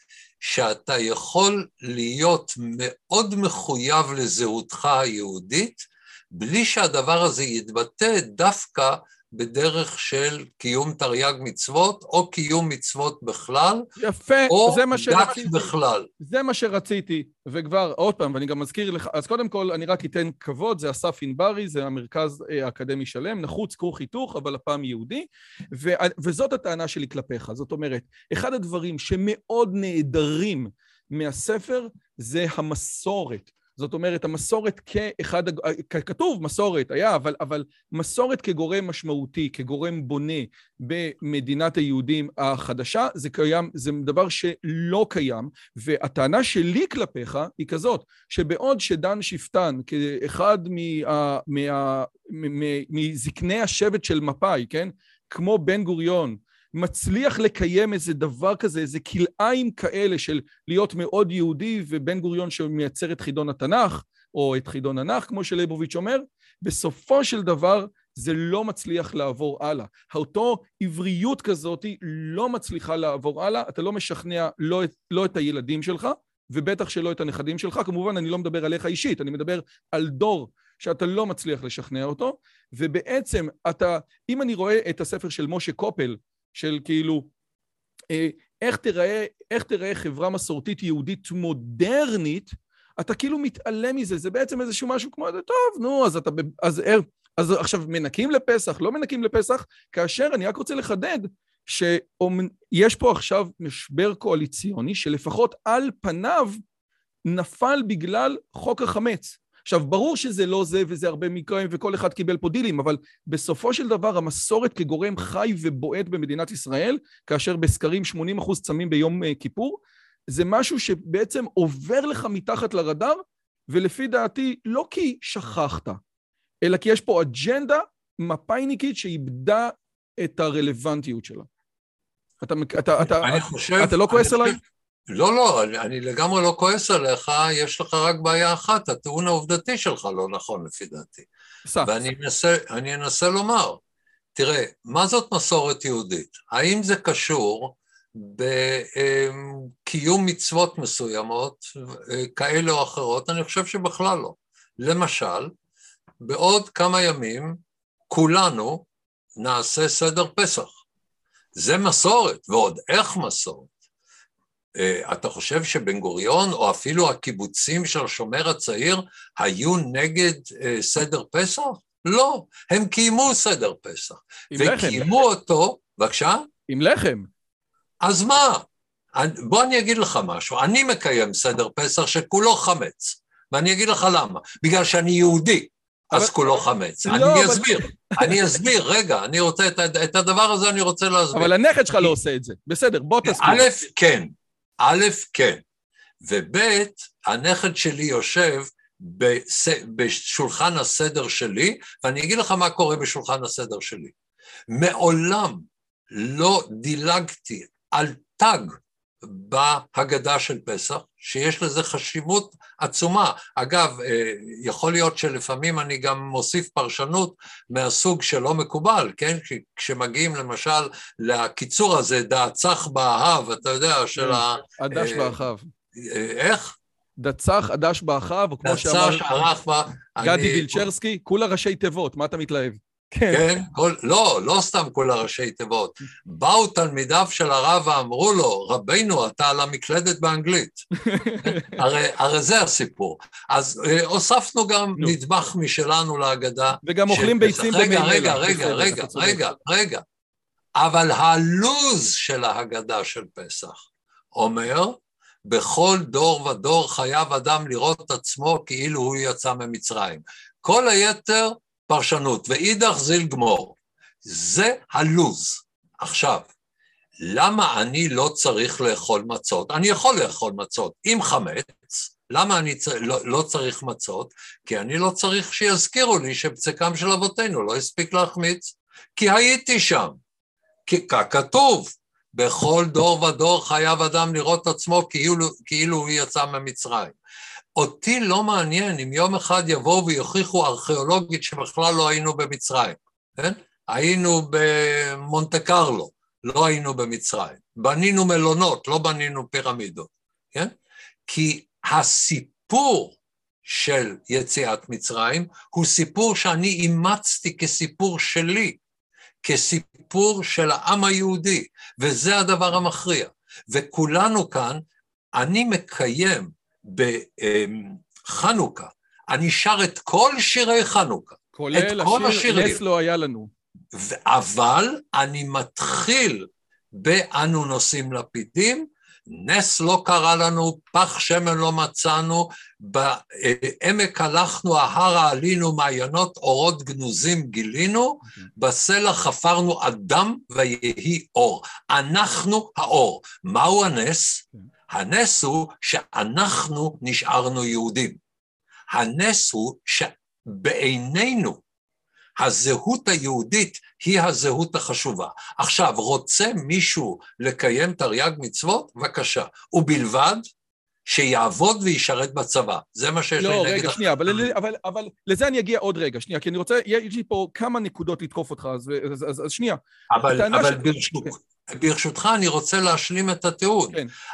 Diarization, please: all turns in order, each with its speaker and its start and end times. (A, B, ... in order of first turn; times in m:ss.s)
0:00.4-0:13.9 A
0:14.0-1:27.3 B
0:14.5-0:16.1 A
1:28.1-1:46.6 B
1:47.2-2:06.0 B
2:06.6-2:11.5 B
2:12.4-2:14.6 B
2:13.1-2:14.6 A
2:15.1-2:21.2 A
2:21.8-2:23.8 A
2:24.4-2:35.5 A
2:36.2-2:37.6 A
2:38.1-2:38.8 A
2:39.4-2:40.8 A
2:41.5-2:43.7 A
2:44.7-2:56.4 A
2:54.5-2:55.0 B
2:56.7-2:57.3 B
2:58.0-3:12.1 A
3:07.0-3:08.4 B
3:11.3-3:13.7 B
3:13.2-3:15.6 A
3:16.2-3:24.1 A
3:24.7-3:45.3 A
3:44.2-3:45.7 B
3:45.9-3:46.8 A
3:47.2-3:49.5 B
3:48.6-3:50.8 A
3:50.2-3:53.4 B
3:53.3-4:00.8 A
4:01.0-4:01.8 B
4:01.4-4:10.0 A
4:06.8-4:09.4 B
4:10.8-4:26.5 A
4:27.2-4:40.2 A
4:40.9-4:47.2 A
4:47.8-5:00.7 A
5:01.3-5:08.8 A
5:09.4-5:14.8 A
5:15.4-5:22.8 A
5:21.6-5:23.5 B
5:23.9-5:48.2 A
5:48.9-5:51.6 A
5:52.4-6:00.4 A
6:01.1-6:04.5 A
6:03.4-6:11.3 B
6:10.1-6:14.0 A